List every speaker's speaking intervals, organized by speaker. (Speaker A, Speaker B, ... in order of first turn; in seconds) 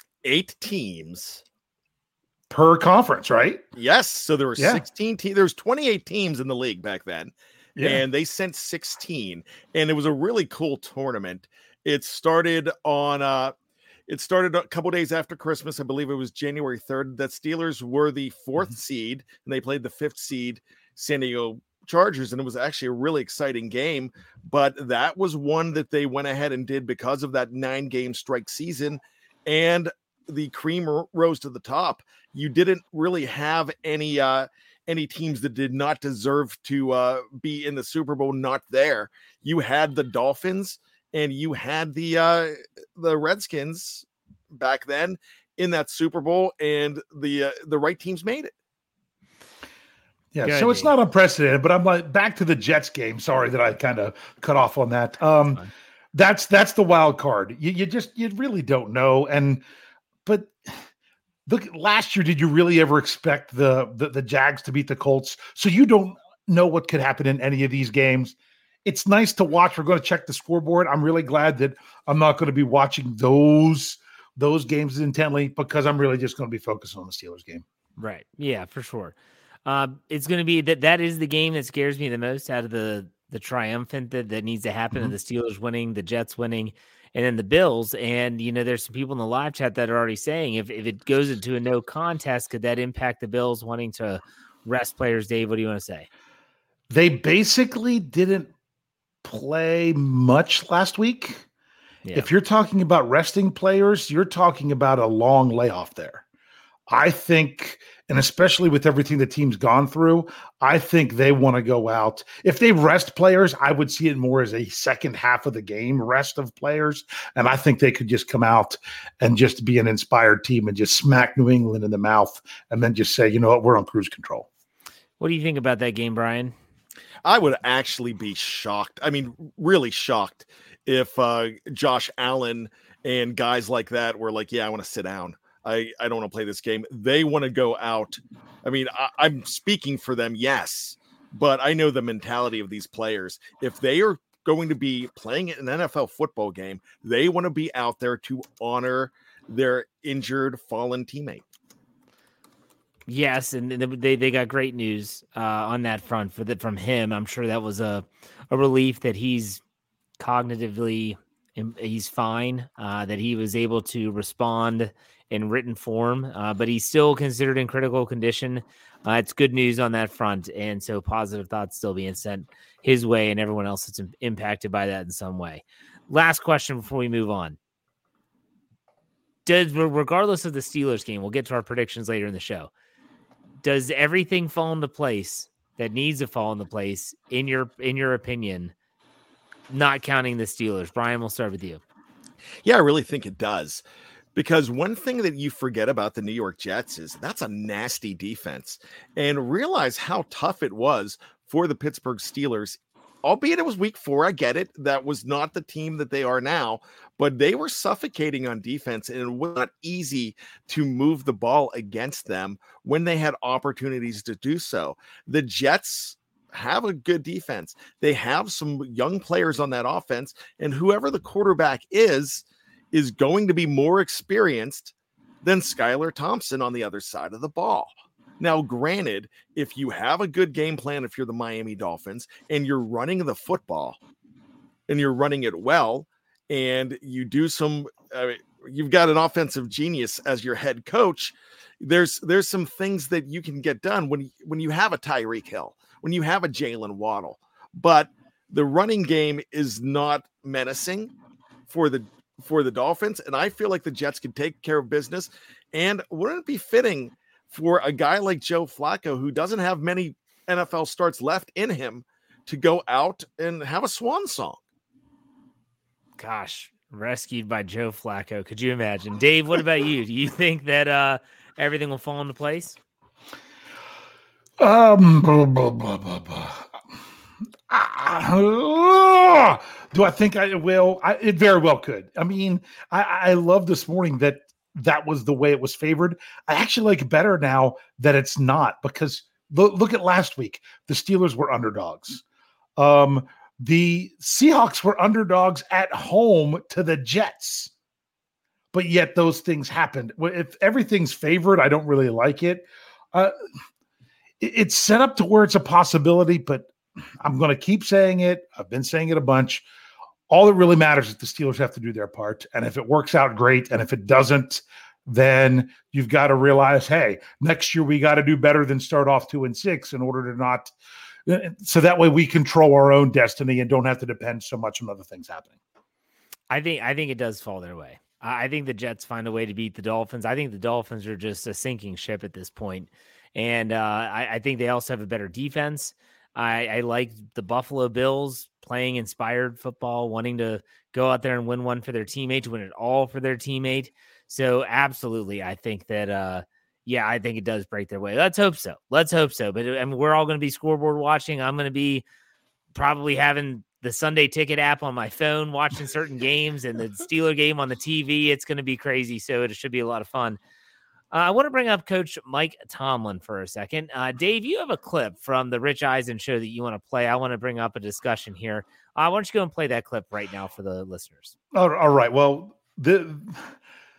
Speaker A: 0.2-1.4, 3.8-7.3, 7.8-13.5, 14.1-48.5, 127.2-151.4, 192.6-193.8, 194.3-234.0, 234.9-251.1, 251.7-264.6
Speaker B: 2.5-3.6, 4.6-4.8, 7.8-8.0, 50.3-55.6, 56.1-59.6, 60.2-60.8, 61.5-77.6, 96.9-98.5, 99.2-101.5, 102.1-106.2, 106.9-124.5, 274.6-276.7, 277.7-292.2, 292.8-297.7, 298.7-303.3, 304.4-306.7, 307.2-309.6, 310.3-320.7, 321.2-325.5, 371.5-373.4
Speaker C: 50.4-50.9, 78.0-96.1, 125.2-126.5, 153.1-159.6, 160.2-177.6, 179.4-182.7, 183.6-188.7, 189.7-191.8, 266.2-272.8, 326.5-352.0, 352.7-360.4, 361.1-371.3